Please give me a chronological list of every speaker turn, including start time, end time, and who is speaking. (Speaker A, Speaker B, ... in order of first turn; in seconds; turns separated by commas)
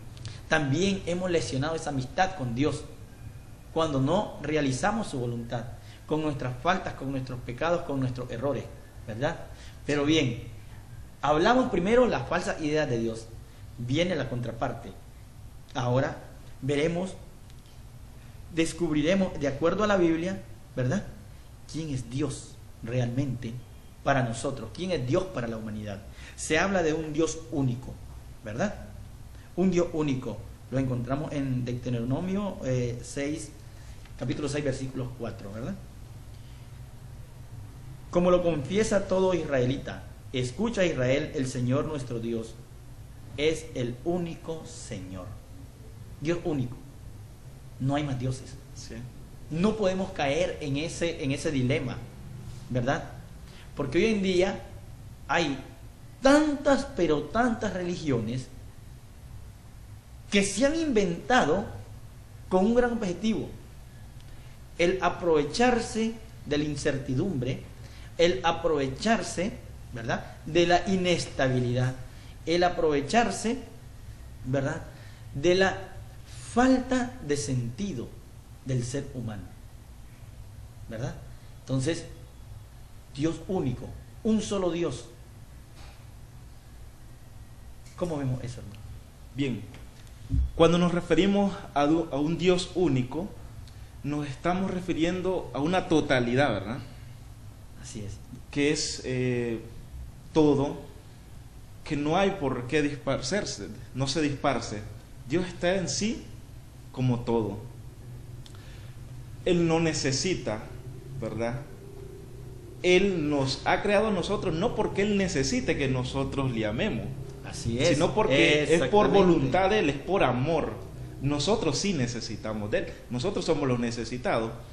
Speaker A: 0.5-2.8, Speaker A: 3.7-10.5, Speaker A: 11.2-14.9, Speaker A: 15.7-17.1, Speaker A: 18.5-21.1, Speaker A: 21.7-28.8, Speaker A: 29.6-33.5, Speaker A: 34.2-35.8, Speaker A: 38.1-42.6, Speaker A: 43.4-45.4, Speaker A: 46.2-46.8, Speaker A: 47.8-48.6, Speaker B: 48.8-49.0, Speaker A: 49.5-52.0, Speaker A: 52.7-53.1, Speaker A: 53.7-54.6, Speaker A: 55.3-55.6, Speaker A: 56.2-58.5, Speaker A: 60.3-61.7, Speaker A: 62.5-63.5, Speaker A: 64.8-67.6, Speaker A: 68.2-73.6, Speaker A: 74.4-78.1, Speaker A: 78.6-79.5, Speaker A: 80.9-82.1, Speaker A: 83.1-85.1, Speaker A: 88.0-88.8, Speaker B: 89.3-89.7, Speaker B: 90.5-93.3, Speaker B: 94.0-96.8, Speaker A: 97.8-98.2, Speaker B: 98.5-99.6, Speaker B: 100.3-100.8, Speaker B: 101.8-106.2, Speaker B: 106.9-107.7, Speaker B: 109.4-111.7, Speaker B: 112.8-117.1, Speaker A: 117.4-119.6, Speaker B: 117.8-124.5